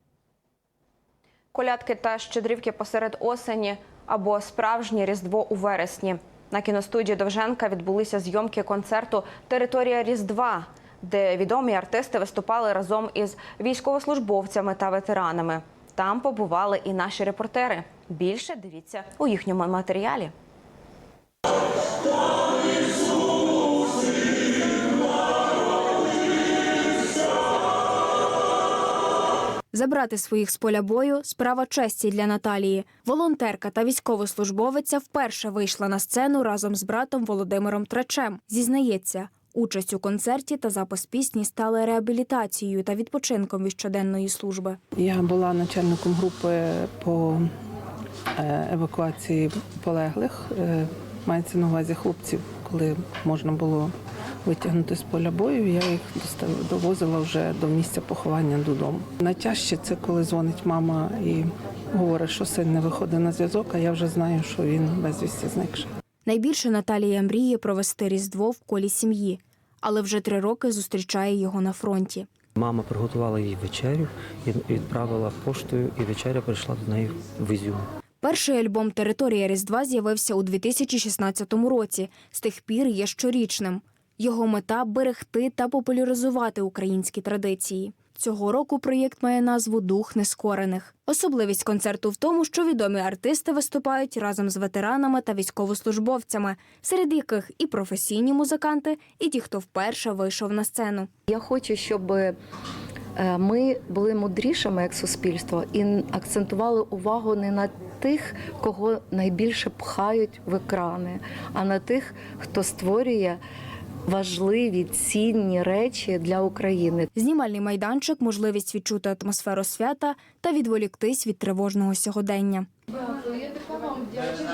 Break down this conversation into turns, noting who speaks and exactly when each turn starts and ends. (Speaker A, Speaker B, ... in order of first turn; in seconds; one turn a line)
Speaker A: 1.5-20.3
Speaker B: 29.7-44.8
Speaker C: 45.0-47.5
Speaker C: 48.4-65.9
Speaker B: 66.2-72.3
Speaker D: 72.6-77.8
Speaker B: 78.2-101.1
Speaker E: 101.3-102.3
Speaker E: 103.2-113.4
Speaker E: 114.1-117.1
Speaker B: 117.2-122.7